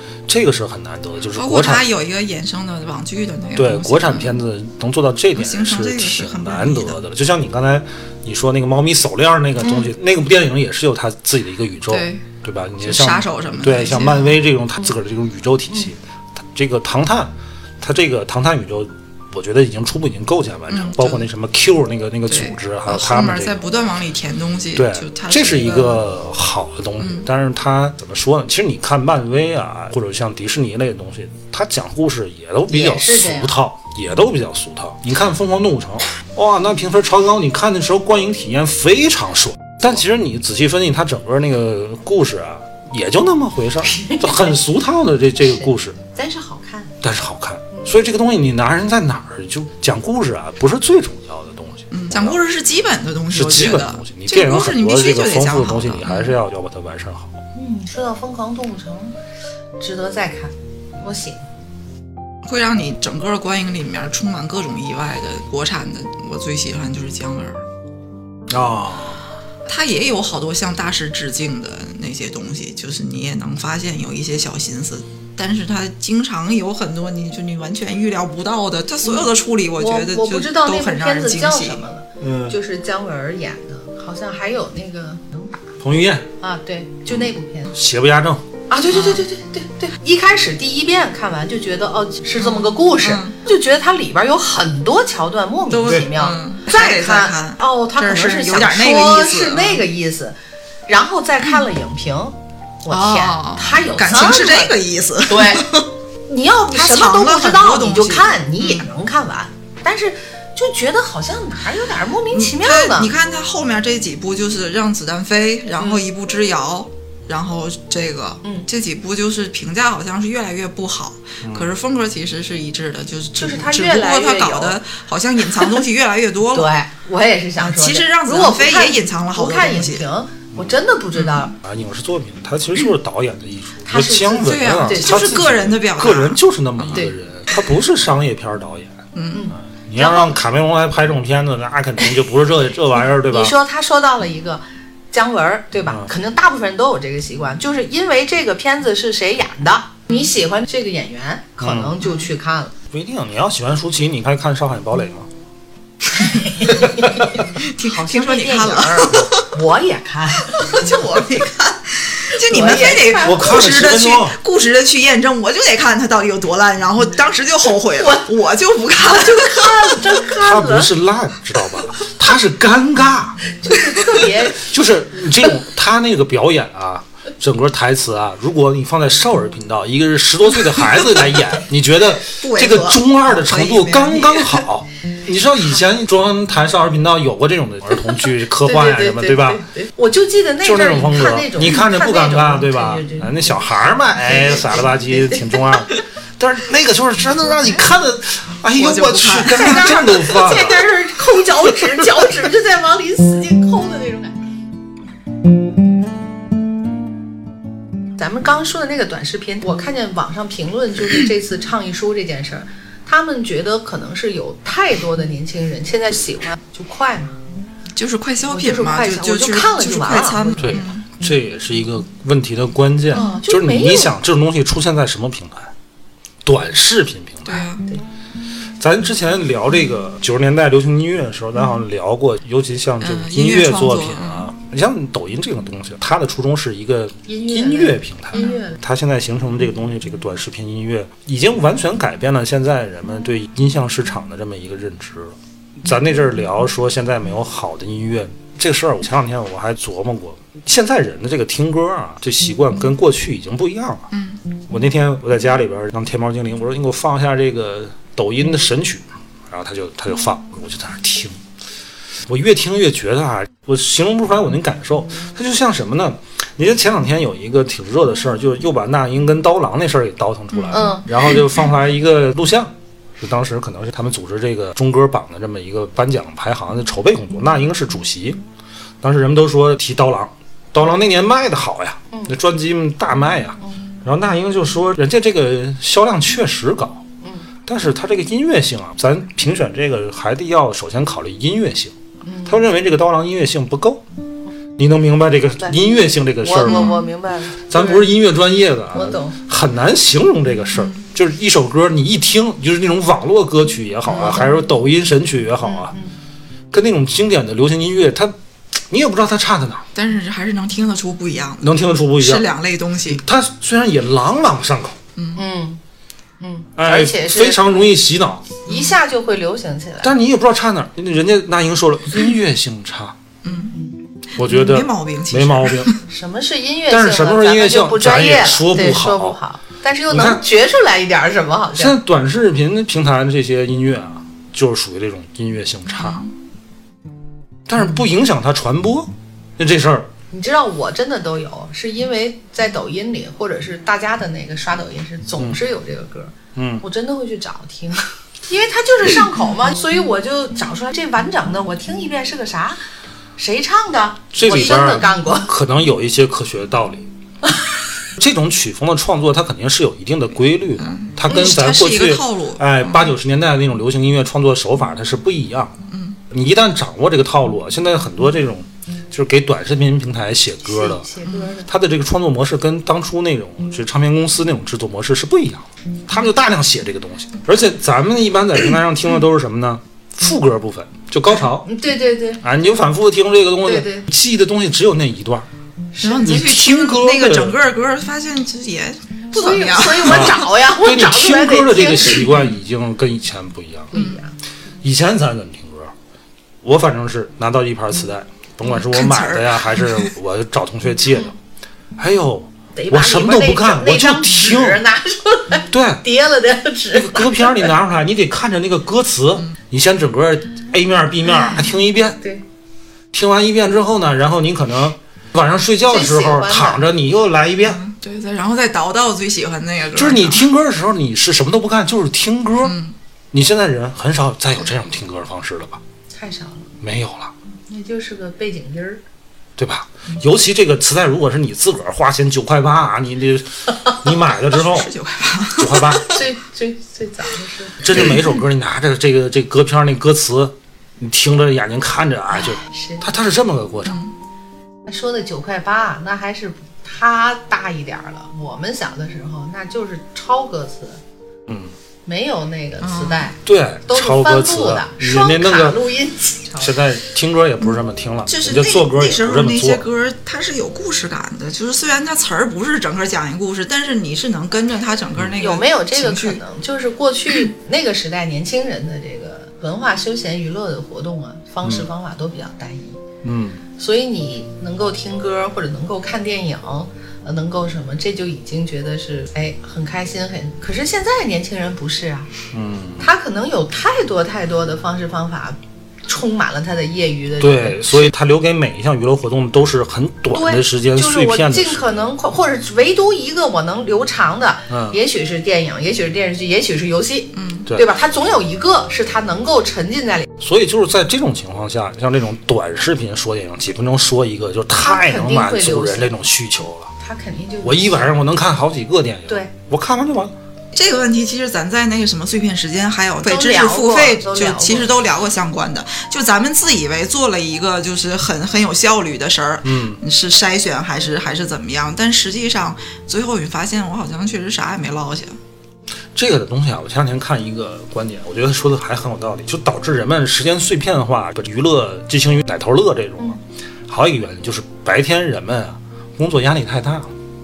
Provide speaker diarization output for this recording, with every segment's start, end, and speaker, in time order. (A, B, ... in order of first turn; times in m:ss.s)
0:00.3-0:01.8 A
0:01.3-0:04.4 B
0:03.6-0:23.7 A
0:05.4-0:07.0 B
0:09.6-0:09.9 B
0:11.9-0:12.3 B
0:12.8-0:14.4 B
0:20.7-0:21.3 B
0:22.3-0:26.1 B
0:24.8-0:46.0 A
0:27.0-0:27.3 B
0:32.7-0:33.6 C
0:43.9-0:44.5 C
0:45.6-0:46.9 C
0:47.0-0:52.4 A
0:51.9-0:56.3 B
0:53.3-0:57.4 A
0:57.6-0:59.2 C
0:59.8-1:01.4 C
1:02.4-1:07.6 B
1:08.5-1:09.2 A
1:09.7-1:21.8 B
1:19.0-1:25.6 C
1:22.2-1:22.6 A
1:25.8-1:26.3 A
1:26.4-1:27.7 C
1:27.7-1:28.4 A
1:28.7-1:40.4 C
1:28.9-1:29.2 B
1:32.4-1:33.4 B
1:35.7-1:39.8 B
1:40.9-1:44.7 C
1:42.9-1:45.9 B
1:45.3-1:45.7 C
1:46.3-1:53.1 C
1:46.7-1:48.9 B
1:52.3-2:06.7 B
2:01.4-2:01.7 A
2:03.4-2:04.8 C
2:06.6-2:11.5 C
2:07.6-2:10.0 B
2:11.2-2:11.5 B
2:11.6-2:19.0 A
2:13.9-2:15.4 C
2:14.4-2:17.1 B
2:19.1-2:19.5 B
2:19.3-2:20.4 C
2:19.7-2:23.5 A
2:23.3-2:32.7 C
2:31.6-2:32.0 A
2:32.9-2:35.3 A
2:36.2-2:40.9 C
2:37.5-2:39.5 B
2:40.6-2:50.0 B
2:42.3-2:43.6 C
2:43.2-2:44.4 A
2:47.9-2:48.2 C
2:49.0-2:50.9 C
2:50.4-2:53.4 A
2:53.5-2:54.7 C
2:54.6-3:09.6 A
3:00.8-3:01.1 B
3:02.3-3:04.7 B
3:08.6-3:13.3 C
3:10.6-3:20.9 A
3:14.2-3:15.6 C
3:18.8-3:19.9 B
3:19.5-3:24.4 C
3:28.2-3:37.4 C
3:38.0-3:41.1 B
3:38.5-3:40.8 C
3:40.6-3:45.7 A
3:43.1-3:44.2 C
3:46.4-3:47.7 A
3:47.5-3:47.9 B
3:48.8-4:14.1 A
3:53.0-3:54.5 B
3:57.3-3:58.8 C
4:14.1-4:14.4 B
4:14.7-4:21.4 A
4:22.3-4:38.4 A
4:30.6-4:30.8 B
4:30.7-4:31.4 C
4:39.0-4:47.0 A
4:47.2-4:47.5 C
4:47.7-4:52.0 A
4:52.3-4:52.6 C
4:52.5-4:54.0 A
4:54.8-4:57.0 A
4:56.4-4:58.1 C
4:56.7-4:57.0 B
4:57.7-5:06.0 A
4:58.9-4:59.4 C
5:00.8-5:01.0 B
5:04.1-5:04.5 C
5:05.6-5:06.1 C
5:06.7-5:08.4 A
5:08.9-5:09.8 A
5:10.0-5:13.2 B
5:11.6-5:12.5 A
5:13.1-5:15.0 A
5:15.2-5:15.4 B
5:15.4-5:15.8 C
5:16.4-5:17.9 C
5:16.8-5:18.6 A
5:18.7-5:20.1 C
5:20.0-5:23.2 A
5:23.4-5:23.7 B
5:24.3-5:26.0 B
5:24.4-5:25.9 A
5:26.1-5:32.0 C
5:26.9-5:29.4 A
5:30.1-5:30.4 A
5:31.8-5:36.3 A
5:36.0-5:36.3 B
5:37.7-5:40.1 A
5:40.3-5:52.8 C
5:46.6-5:46.8 A
5:53.4-5:55.5 C
5:54.3-5:57.1 A
5:58.2-6:05.8 A
6:00.8-6:03.2 B
6:05.9-6:06.2 B
6:06.3-6:11.1 A
6:10.6-6:11.7 C
6:11.3-6:11.6 B
6:11.7-6:21.7 A
6:21.7-6:22.4 C
6:22.4-6:25.5 A
6:23.6-6:24.1 C
6:26.0-6:26.2 C
6:26.0-6:30.5 B
6:26.2-6:27.6 A
6:29.3-6:32.3 C
6:30.0-6:33.9 A
6:33.9-6:34.3 C
6:33.9-6:34.2 B
6:34.8-6:35.9 A
6:36.6-6:41.3 A
6:38.7-6:40.1 B
6:42.0-6:44.8 A
6:42.8-6:47.7 C
6:45.7-6:46.0 A
6:46.9-6:52.2 A
6:51.3-6:51.7 C
6:53.1-6:57.8 A
6:55.9-6:56.8 C
6:57.7-7:00.4 B
7:00.0-7:02.8 A
7:02.6-7:03.0 B
7:03.3-7:05.8 A
7:06.1-7:06.7 C
7:06.8-7:07.3 A
7:07.7-7:09.0 C
7:09.6-7:14.9 A
7:14.5-7:16.2 B
7:15.6-7:16.1 A
7:16.0-7:17.9 C
7:17.8-7:24.0 A
7:22.4-7:23.0 C
7:23.8-7:24.2 B
7:24.9-7:31.0 C
7:32.1-7:33.4 C
7:32.8-7:33.3 B
7:33.4-7:35.8 A
7:33.9-7:36.7 C
7:36.6-7:39.9 A
7:38.3-7:46.4 B
7:45.4-7:53.0 C
7:53.2-7:53.6 A
7:53.8-8:02.3 C
8:02.5-8:03.1 A
8:03.0-8:08.1 C
8:07.4-8:11.9 A
8:10.3-8:20.3 C
8:14.7-8:15.0 A
8:17.4-8:17.7 B
8:20.4-8:26.9 A
8:24.8-8:26.1 C
8:27.0-8:28.0 C
8:27.6-8:30.3 A
8:30.7-8:45.4 B
8:33.2-8:34.9 C
8:39.6-8:40.0 A
8:46.2-8:57.2 A